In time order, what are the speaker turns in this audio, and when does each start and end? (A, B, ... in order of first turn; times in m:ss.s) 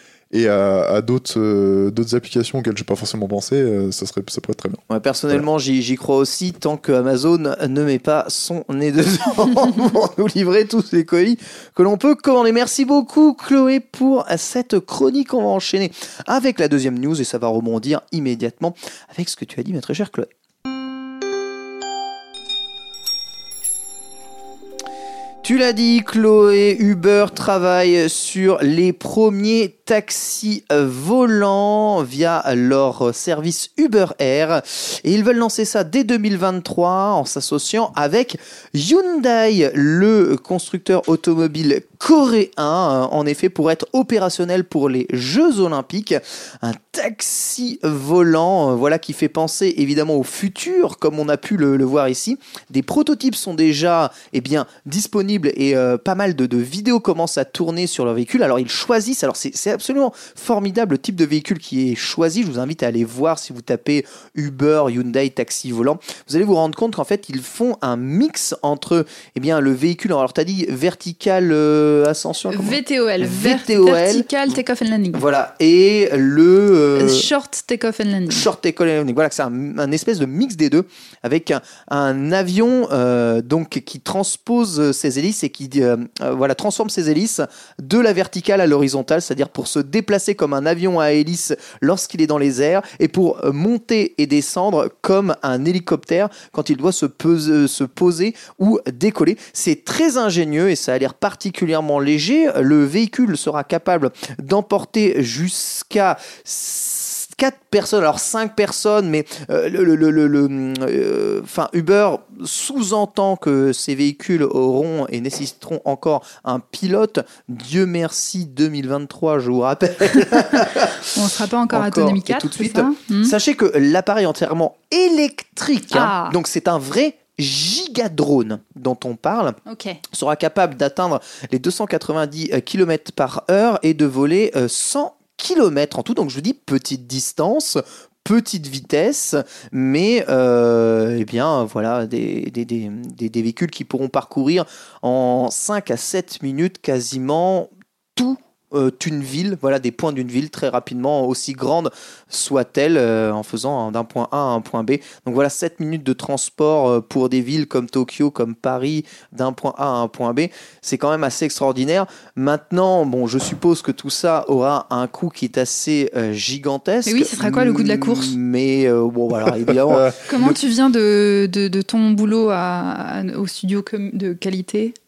0:00.3-0:05.4 A
0:04.9-0:20.3 B
0:25.4-1:14.5 B
1:12.5-1:15.2 C
1:15.1-1:17.3 B
1:16.9-1:18.5 C
1:18.3-2:01.1 B
2:00.6-2:03.3 C
2:01.7-2:09.6 B
2:05.9-2:06.4 C
2:09.6-2:10.0 C
2:10.1-2:50.5 B
2:47.1-2:48.4 C
2:49.4-2:50.2 A
2:50.3-2:54.9 C